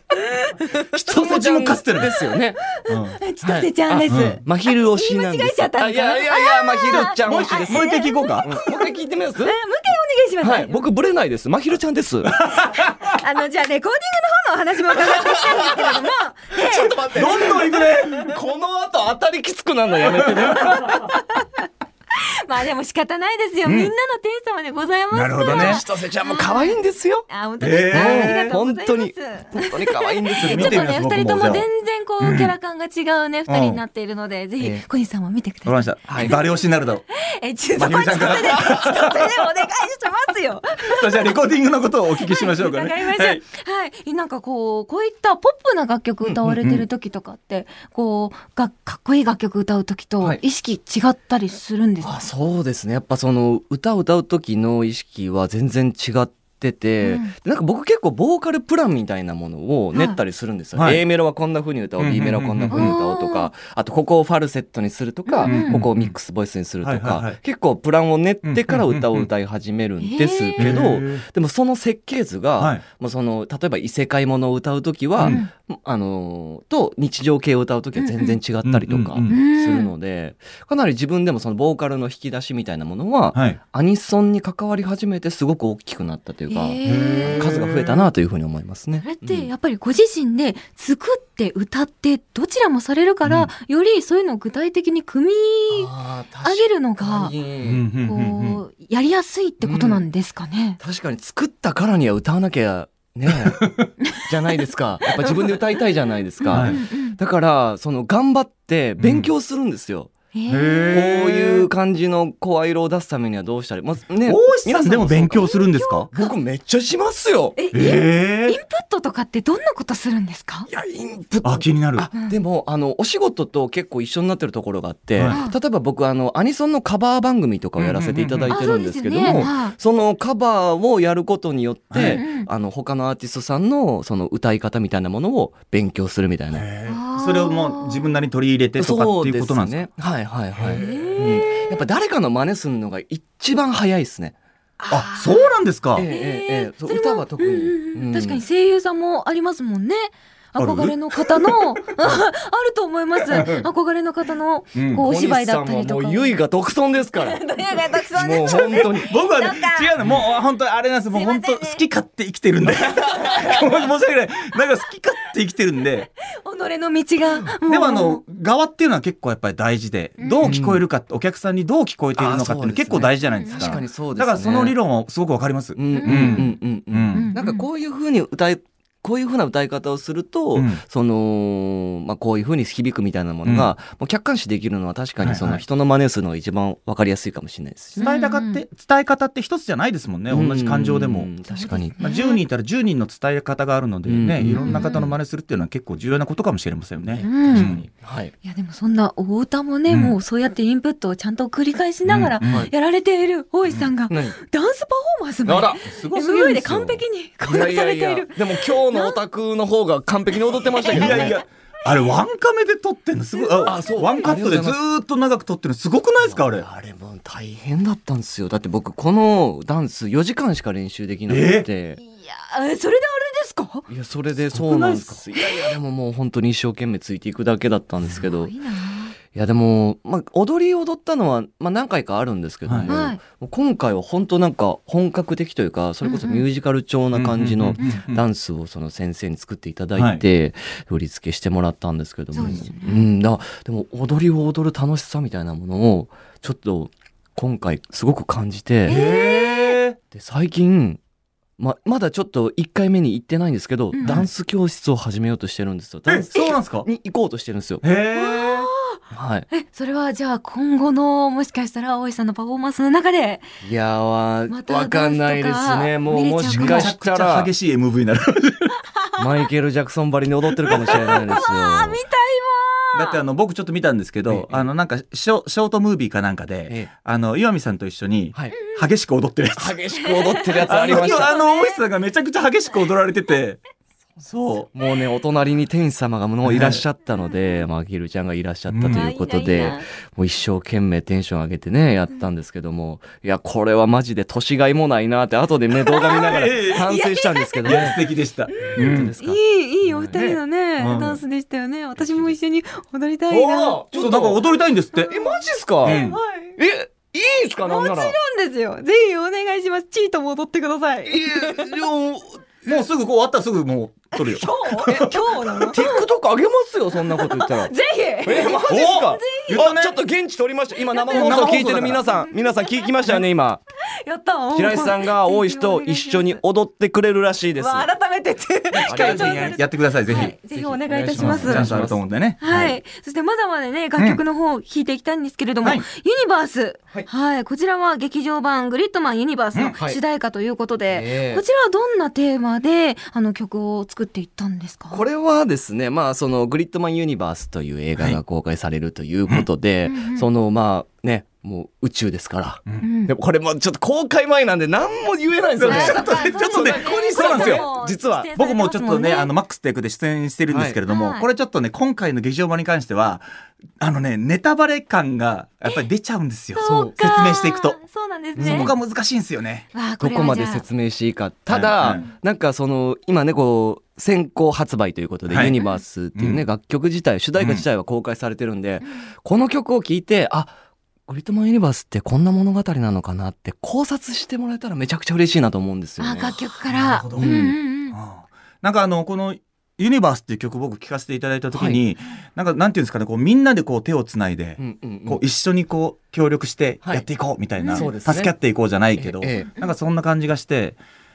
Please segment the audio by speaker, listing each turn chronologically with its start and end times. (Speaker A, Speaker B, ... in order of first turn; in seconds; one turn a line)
Speaker A: 0.1-1.4
Speaker B: 0.9-2.1
Speaker C: 1.0-2.6
Speaker A: 2.6-10.8
Speaker B: 2.9-3.2
Speaker C: 3.4-7.8
Speaker B: 4.1-4.4
Speaker B: 6.9-8.5
Speaker C: 8.4-9.6
Speaker C: 10.4-12.4
Speaker B: 12.3-13.1
Speaker A: 13.0-17.6
Speaker C: 15.0-16.0
Speaker C: 16.5-21.0
Speaker B: 17.1-18.3
Speaker B: 20.4-20.7
Speaker A: 20.6-36.5
Speaker B: 23.6-23.9
Speaker B: 25.1-25.8
Speaker C: 25.4-27.2
Speaker B: 27.6-28.6
Speaker C: 27.9-30.8
Speaker B: 30.4-31.7
Speaker B: 32.2-32.5
Speaker B: 33.5-33.8
Speaker B: 35.6-37.0
Speaker C: 36.1-36.4
Speaker A: 37.1-41.4
Speaker B: 37.7-39.4
Speaker B: 40.9-43.4
Speaker A: 42.1-52.2
Speaker C: 46.2-46.5
Speaker B: 46.5-46.9
Speaker C: 52.0-89.5
Speaker A: 57.0-57.3
Speaker B: 60.8-61.0
Speaker B: 62.0-63.0
Speaker A: 62.7-63.5
Speaker A: 65.3-65.8
Speaker B: 65.4-66.1
Speaker B: 66.8-67.4
Speaker B: 68.4-69.3
Speaker A: 70.0-70.9
Speaker B: 70.6-71.2
Speaker B: 72.6-72.8
Speaker B: 75.2-75.4
Speaker A: 75.2-75.5
Speaker A: 78.0-78.4
Speaker B: 78.6-79.3
Speaker A: 79.3-79.9
Speaker A: 86.5-87.5
Speaker B: 86.8-88.1
Speaker A: 89.0-95.9
Speaker B: 93.2-93.5
Speaker C: 95.7-97.8
Speaker A: 96.4-97.3
Speaker B: 97.6-98.6
Speaker A: 98.0-100.8
Speaker C: 99.6-100.0
Speaker C: 100.8-110.1
Speaker B: 103.3-103.9
Speaker A: 105.2-105.8
Speaker A: 106.4-107.2
Speaker B: 106.5-106.8
Speaker B: 109.0-109.3
Speaker A: 110.3-111.0
Speaker B: 110.5-111.7
Speaker C: 110.9-115.5
Speaker B: 114.2-116.1
Speaker A: 115.4-116.3
Speaker C: 116.1-117.6
Speaker A: 117.6-120.7
Speaker B: 117.7-118.6
Speaker C: 120.7-136.7
Speaker B: 121.4-122.1
Speaker A: 125.3-125.5
Speaker B: 127.8-128.6
Speaker A: 128.5-129.7
Speaker B: 129.2-129.5
Speaker B: 131.9-132.2
Speaker A: 132.1-132.5
Speaker B: 136.5-139.8
Speaker A: 136.8-138.2
Speaker C: 138.8-144.3
Speaker B: 140.6-141.4
Speaker A: 140.7-141.7
Speaker A: 144.8-156.4
Speaker B: 144.9-146.1
Speaker C: 145.9-148.4
Speaker B: 150.6-151.6
Speaker B: 153.2-153.7
Speaker B: 154.8-155.0
Speaker C: 155.0-157.4
Speaker A: 157.1-159.9
Speaker C: 158.1-159.1
Speaker B: 159.0-166.1
Speaker A: 161.1-161.8
Speaker C: 162.7-163.6
Speaker A: 166.2-168.2
Speaker B: 167.6-177.3
Speaker A: 170.2-170.5
Speaker C: 170.4-170.8
Speaker C: 172.2-174.8
Speaker A: 173.3-173.8
Speaker C: 175.8-188.1
Speaker A: 175.9-176.6
Speaker A: 177.1-177.7
Speaker B: 180.5-180.8
Speaker B: 183.4-183.7
Speaker B: 185.2-185.6
Speaker A: 188.0-188.6
Speaker B: 188.0-191.3
Speaker C: 190.3-192.0
Speaker A: 191.5-192.4
Speaker B: 192.0-197.8
Speaker C: 194.1-195.1
Speaker A: 194.5-195.1
Speaker C: 197.1-198.3
Speaker A: 197.2-197.8
Speaker A: 198.4-209.2
Speaker B: 199.9-200.2
Speaker B: 202.1-202.7
Speaker C: 202.4-202.7
Speaker C: 204.1-204.4
Speaker C: 205.4-205.9
Speaker B: 205.8-206.9
Speaker C: 207.4-211.4
Speaker A: 210.5-211.4
Speaker B: 210.8-216.7
Speaker A: 213.3-214.2
Speaker C: 213.6-214.8
Speaker C: 216.2-222.0
Speaker B: 221.3-221.7
Speaker A: 222.0-223.9
Speaker C: 223.9-228.5
Speaker B: 224.5-225.2
Speaker A: 225.4-225.7
Speaker A: 228.1-229.1
Speaker C: 229.3-249.0
Speaker B: 232.6-232.9
Speaker A: 232.9-233.2
Speaker A: 236.0-236.4
Speaker B: 237.1-238.2
Speaker B: 239.9-240.2
Speaker A: 242.3-243.1
Speaker A: 248.9-249.8
Speaker B: 248.9-250.0
Speaker C: 250.1-251.0
Speaker C: 251.6-257.8
Speaker A: 253.9-254.2
Speaker B: 254.0-254.3
Speaker B: 256.1-256.9
Speaker B: 257.8-258.7
Speaker A: 258.1-259.0
Speaker C: 259.1-259.5
Speaker A: 259.5-263.5
Speaker C: 263.6-267.5
Speaker A: 264.5-266.9
Speaker B: 266.4-268.8
Speaker C: 269.2-272.0
Speaker B: 270.7-270.9
Speaker A: 270.9-273.2
Speaker B: 272.9-279.8
Speaker C: 274.3-274.6
Speaker C: 279.6-281.3
Speaker A: 280.0-281.8
Speaker B: 280.6-283.6
Speaker B: 284.2-284.7
Speaker C: 284.7-298.0
Speaker B: 286.4-286.8
Speaker A: 287.2-287.6
Speaker B: 288.7-289.1
Speaker A: 288.9-289.8
Speaker A: 295.8-304.2
Speaker B: 296.1-296.9
Speaker B: 297.6-299.1
Speaker C: 298.5-300.2
Speaker B: 300.1-301.2
Speaker C: 302.0-302.3
Speaker C: 303.3-304.4
Speaker B: 303.9-305.1
Speaker A: 304.9-306.6
Speaker C: 305.1-306.0
Speaker B: 305.8-306.2
Speaker C: 306.6-308.2
Speaker A: 307.6-311.7
Speaker C: 311.0-312.4
Speaker B: 312.6-315.2
Speaker A: 314.1-316.1
Speaker C: 315.7-323.6
Speaker A: 317.0-319.6
Speaker B: 318.7-320.0
Speaker A: 320.9-321.6
Speaker B: 321.1-322.1
Speaker A: 322.2-322.9
Speaker A: 323.9-326.4
Speaker C: 324.5-327.9
Speaker A: 327.6-331.7
Speaker B: 328.7-330.3
Speaker C: 328.8-329.6
Speaker C: 330.1-332.8
Speaker B: 331.1-332.4
Speaker A: 332.4-345.0
Speaker C: 340.9-341.4
Speaker C: 344.9-358.3
Speaker A: 349.9-350.2
Speaker A: 352.8-353.1
Speaker B: 355.6-357.7
Speaker A: 355.6-359.3
Speaker B: 358.4-363.2
Speaker C: 360.5-360.8
Speaker A: 360.9-361.3
Speaker B: 363.8-367.8
Speaker A: 366.5-368.7
Speaker C: 366.6-366.9
Speaker C: 368.4-368.7
Speaker B: 368.4-369.7
Speaker A: 369.7-370.6
Speaker C: 370.0-380.5
Speaker B: 371.5-372.0
Speaker B: 375.3-375.6
Speaker A: 375.5-375.8
Speaker B: 376.1-376.4
Speaker B: 377.4-377.6
Speaker A: 378.8-379.1
Speaker C: 381.1-386.5
Speaker A: 386.0-388.0
Speaker B: 386.7-400.8
Speaker C: 387.2-387.6
Speaker C: 391.5-391.8
Speaker C: 394.6-395.2
Speaker A: 397.6-397.9
Speaker C: 397.7-398.3
Speaker C: 398.9-399.5